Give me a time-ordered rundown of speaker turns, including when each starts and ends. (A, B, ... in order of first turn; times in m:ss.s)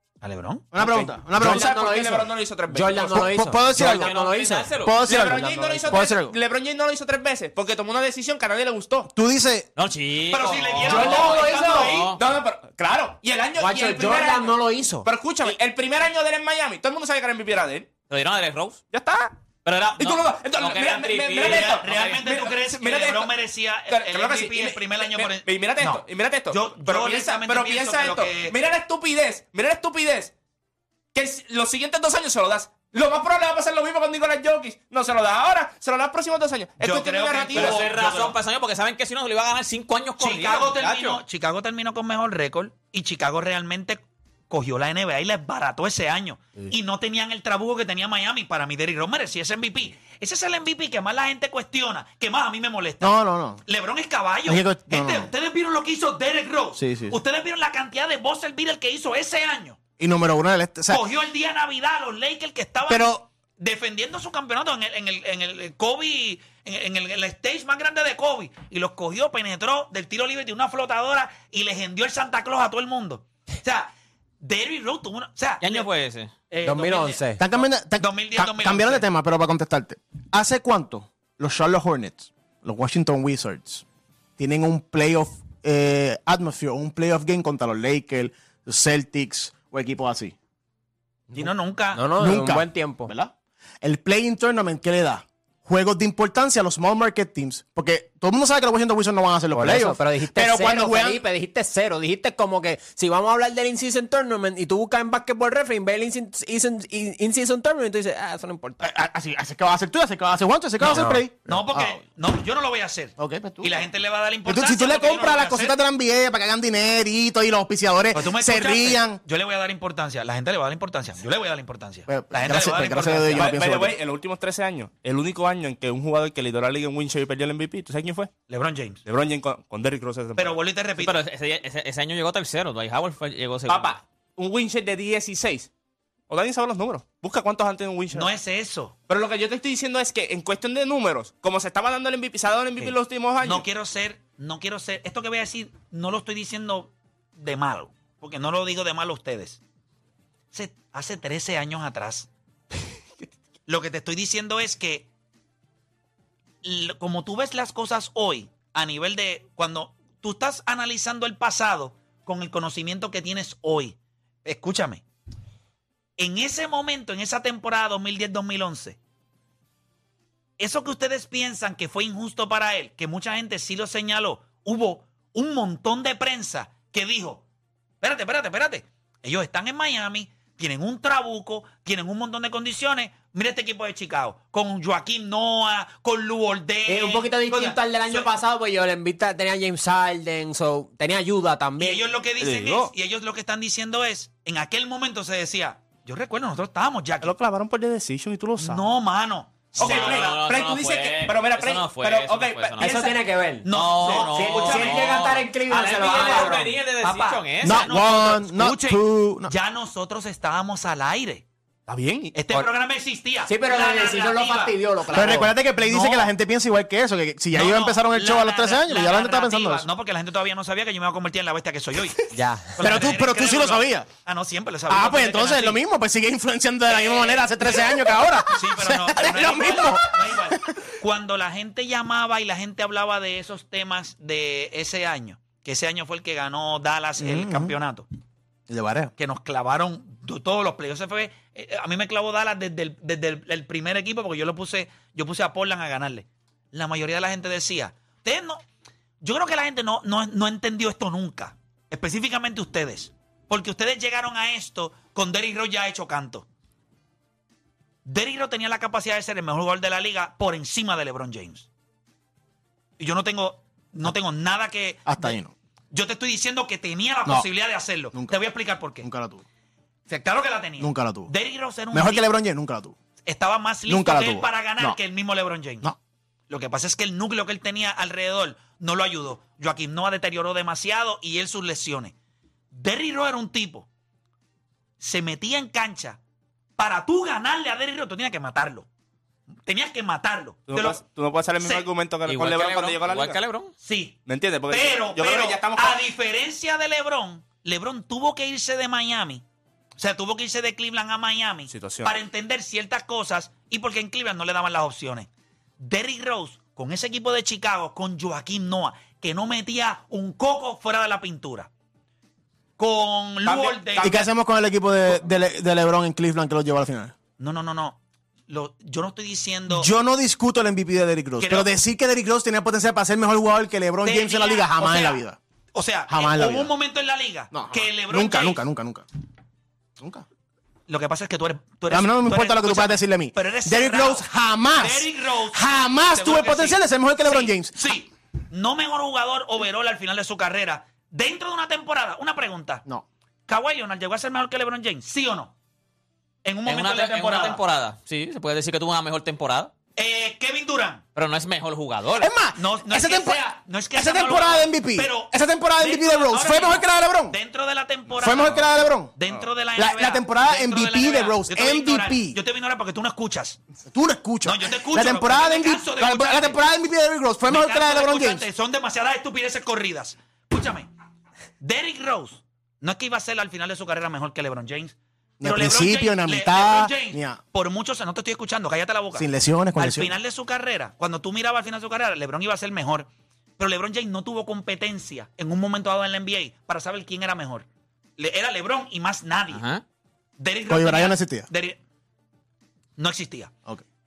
0:00.2-0:00.7 A
0:00.7-0:01.7 B
0:00.8-0:03.3 C
0:01.3-0:06.4 D
0:03.0-0:04.1 B
0:03.8-0:05.1 E
0:04.8-0:05.4 B
0:05.0-0:09.1 C
0:05.9-0:06.2 B
0:09.1-0:09.7 B
0:09.8-0:12.2 E
0:10.3-0:12.1 A
0:10.8-0:12.1 D
0:12.2-0:18.0 C
0:13.6-0:15.1 D
0:18.1-0:18.8 E
0:18.9-0:19.4 C
0:19.6-0:21.8 E
0:20.0-0:23.4 C
0:21.4-0:28.6 A
0:23.9-0:30.3 C
0:31.1-0:37.9 C
0:36.8-0:38.4 A
0:37.6-0:41.2 E
0:40.2-0:59.8 A
0:53.0-0:53.6 B
0:54.5-0:55.3 B
0:56.8-0:57.2 B
1:00.0-1:01.0 B
1:00.9-1:13.9 A
1:02.9-1:03.3 B
1:14.4-1:15.9 A
1:15.6-1:16.3 E
1:16.5-1:19.1 A
1:16.6-1:17.4 D
1:17.4-1:23.8 B
1:24.4-1:30.4 B
1:31.3-1:33.1 D
1:31.4-1:32.0 A
1:32.2-1:41.2 B
1:39.5-1:48.9 D
1:48.8-1:52.0 B
1:50.9-1:51.3 D
1:51.4-1:55.8 A
1:53.2-1:53.9 B
1:54.4-1:59.2 B
1:58.1-2:03.5 A
2:02.1-2:04.0 B
2:03.4-2:08.3 C
2:08.5-2:09.0 A
2:09.0-2:10.6 C
2:10.4-2:11.2 A
2:11.0-2:14.0 E
2:13.7-2:15.7 C
2:16.3-2:18.3 C
2:18.1-2:19.0 A
2:19.1-2:23.7 C
2:22.8-2:29.6 A
2:30.5-2:32.3 A
2:33.7-2:35.1 A
2:36.6-2:45.0 A
2:46.2-2:49.0 A
2:50.6-2:57.4 A
2:58.0-3:08.3 A
3:06.9-3:12.1 D
3:11.8-3:17.3 A
3:12.4-3:12.9 C
3:17.2-3:18.9 C
3:18.6-3:20.4 A
3:19.8-3:23.1 E
3:19.8-3:23.1 C
3:22.8-3:26.8 D
3:23.6-3:25.1 A
3:23.7-3:27.9 E
3:26.0-3:31.4 A
3:27.6-3:29.5 B
3:31.9-3:32.7 C
3:32.3-3:36.3 A
3:33.5-3:35.6 D
3:35.1-3:39.9 B
3:37.5-3:45.8 A
3:42.3-3:43.0 D
3:42.8-3:44.1 B
3:44.9-3:50.8 B
3:46.9-3:58.1 A
3:57.2-3:57.7 B
3:58.7-3:59.1 B
3:59.2-4:08.6 A
4:09.2-4:16.5 A
4:18.0-4:21.7 A
4:23.0-4:25.4 A
4:25.1-4:25.5 B
4:25.9-4:29.1 A
4:28.1-4:28.4 B
4:29.0-4:29.4 B
4:30.1-4:32.3 A
4:30.8-4:31.3 B
4:31.9-4:33.0 B
4:33.2-4:35.9 A
4:33.9-4:35.0 B
4:36.5-4:42.1 A
4:42.7-4:43.9 A
4:45.0-4:46.2 A
4:46.8-4:48.9 A
4:49.7-4:51.0 A
4:50.7-4:53.4 C
4:51.6-4:51.9 A
4:52.3-4:53.7 E
4:53.8-4:54.2 A
4:54.3-4:56.1 C
4:54.7-4:59.4 A
5:00.0-5:05.3 A
5:01.7-5:02.1 C
5:05.8-5:11.7 A
5:12.8-5:14.3 A
5:13.4-5:14.3 C
5:14.0-5:17.1 B
5:17.4-5:19.9 A
5:19.7-5:25.4 B
5:21.4-5:21.7 A
5:24.0-5:25.2 A
5:25.7-5:28.7 A
5:26.1-5:26.7 B
5:27.5-5:29.0 B
5:30.0-5:30.2 B
5:30.9-5:42.8 A
5:31.9-5:37.9 B
5:43.5-5:45.5 A
5:46.4-5:47.6 A
5:46.7-5:49.7 E
5:50.0-5:51.0 A
5:51.2-5:52.3 E
5:52.2-5:53.4 B
5:52.6-6:03.6 A
5:53.9-5:57.4 B
5:58.2-5:59.1 B
5:59.8-6:02.4 B
6:03.9-6:08.5 B
6:04.4-6:06.6 A
6:07.5-6:10.9 A
6:11.6-6:27.7 A
6:15.4-6:17.4 B
6:19.2-6:20.2 B
6:28.2-6:29.6 A
6:29.5-6:29.8 E
6:30.4-6:31.8 A
6:30.7-6:31.5 B
6:33.0-6:33.5 A